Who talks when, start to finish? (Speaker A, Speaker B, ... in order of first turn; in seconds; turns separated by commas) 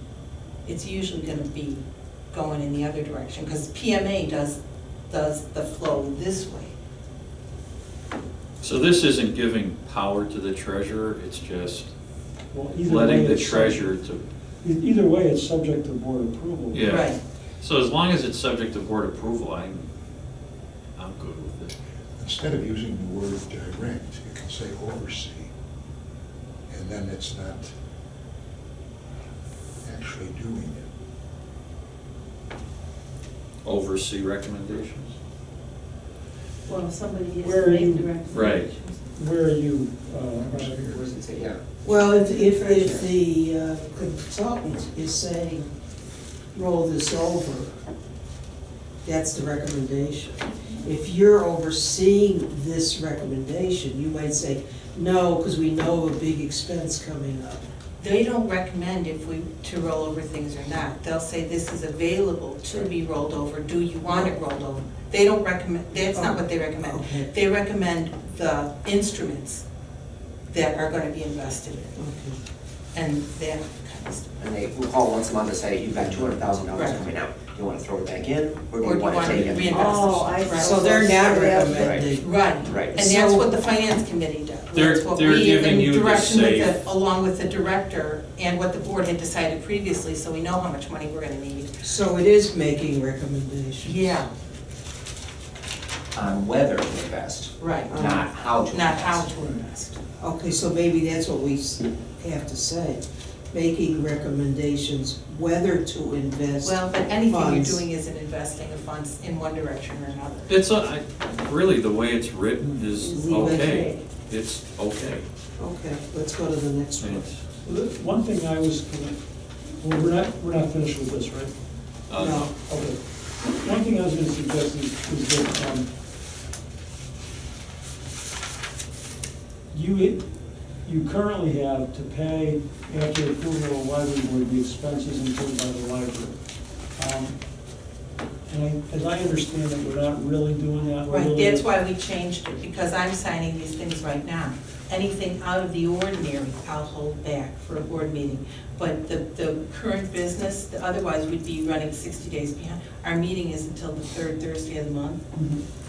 Speaker A: 0.7-6.7, Speaker B: 8.6-11.9, Speaker C: 12.5-13.9, Speaker B: 12.8-14.2, Speaker C: 14.6-17.0, Speaker B: 16.7-19.9, Speaker A: 16.8-17.2, Speaker B: 20.9-21.7, Speaker D: 22.1-25.5, Speaker D: 26.7-27.7, Speaker D: 29.8-30.9, Speaker B: 33.6-35.1, Speaker E: 36.7-39.0, Speaker C: 37.4-38.2, Speaker B: 38.2-38.7, Speaker C: 39.1-41.0, Speaker D: 40.3-41.0, Speaker F: 40.9-41.6, Speaker G: 41.8-45.7, Speaker G: 46.5-47.7, Speaker G: 49.0-57.6, Speaker A: 58.0-69.6, Speaker G: 64.0-64.3, Speaker G: 66.1-67.3, Speaker A: 70.5-72.0, Speaker G: 72.0-72.4, Speaker A: 72.9-74.3, Speaker F: 74.4-80.1, Speaker D: 76.0-76.6, Speaker A: 76.7-77.0, Speaker A: 78.8-91.8, Speaker G: 79.7-82.3, Speaker F: 81.7-82.1, Speaker F: 82.6-83.0, Speaker G: 82.9-83.5, Speaker B: 84.7-86.7, Speaker G: 91.8-94.2, Speaker A: 93.8-94.3, Speaker F: 96.1-99.3, Speaker A: 97.6-100.0, Speaker G: 97.9-98.3, Speaker G: 100.2-107.8, Speaker A: 106.6-110.5, Speaker B: 110.5-115.2, Speaker G: 113.0-114.0, Speaker G: 115.6-117.3, Speaker B: 117.0-117.4, Speaker C: 117.6-119.2, Speaker C: 119.8-121.5, Speaker B: 122.1-122.5, Speaker G: 122.2-122.5, Speaker C: 122.5-125.9, Speaker C: 129.7-130.2, Speaker C: 130.8-136.3, Speaker C: 137.0-137.3, Speaker C: 138.5-141.7, Speaker A: 141.1-155.2, Speaker C: 155.3-155.6